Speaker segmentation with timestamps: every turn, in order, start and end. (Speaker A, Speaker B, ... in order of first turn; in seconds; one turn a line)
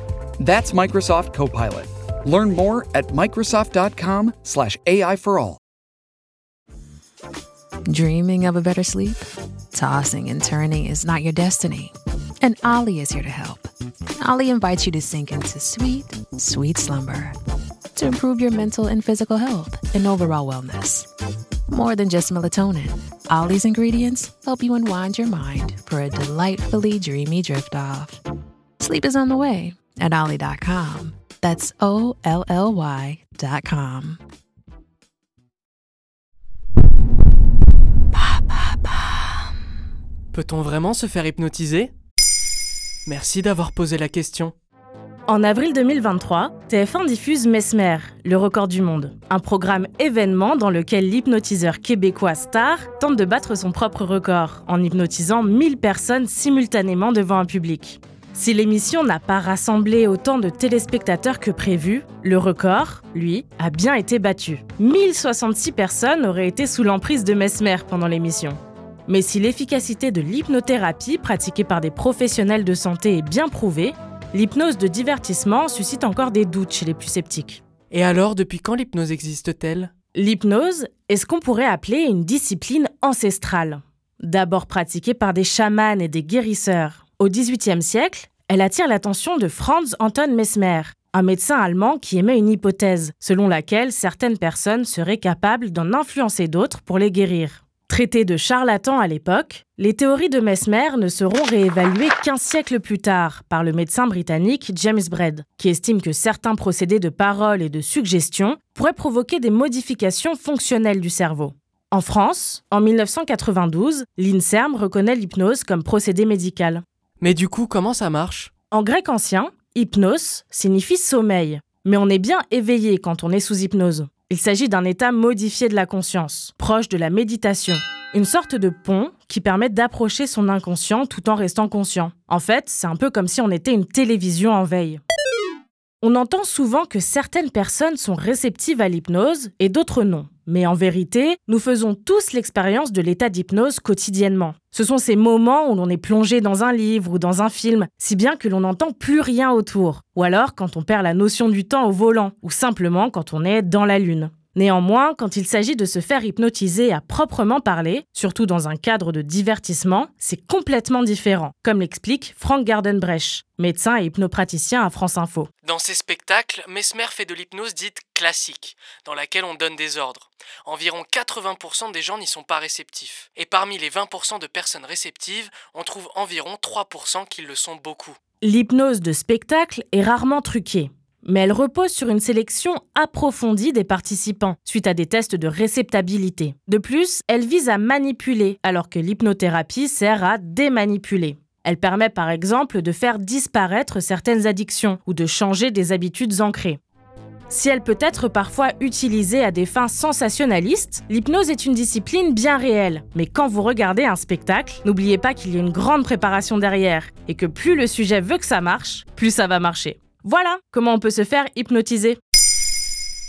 Speaker A: 0.4-5.6
Speaker B: 7.9-17.3
Speaker B: 17.9-21.1
Speaker B: 21.7-28.2
Speaker B: 28.8-34.2
Speaker C: 40.3-41.9
Speaker C: 43.0-44.5
Speaker D: 45.3-77.6
Speaker C: 77.9-79.9
Speaker D: 80.1-116.8
Speaker C: 117.2-118.5
Speaker D: 118.7-135.0
Speaker D: 136.0-165.5
Speaker C: 165.6-178.2
Speaker D: 178.4-196.8
Speaker D: 197.5-212.2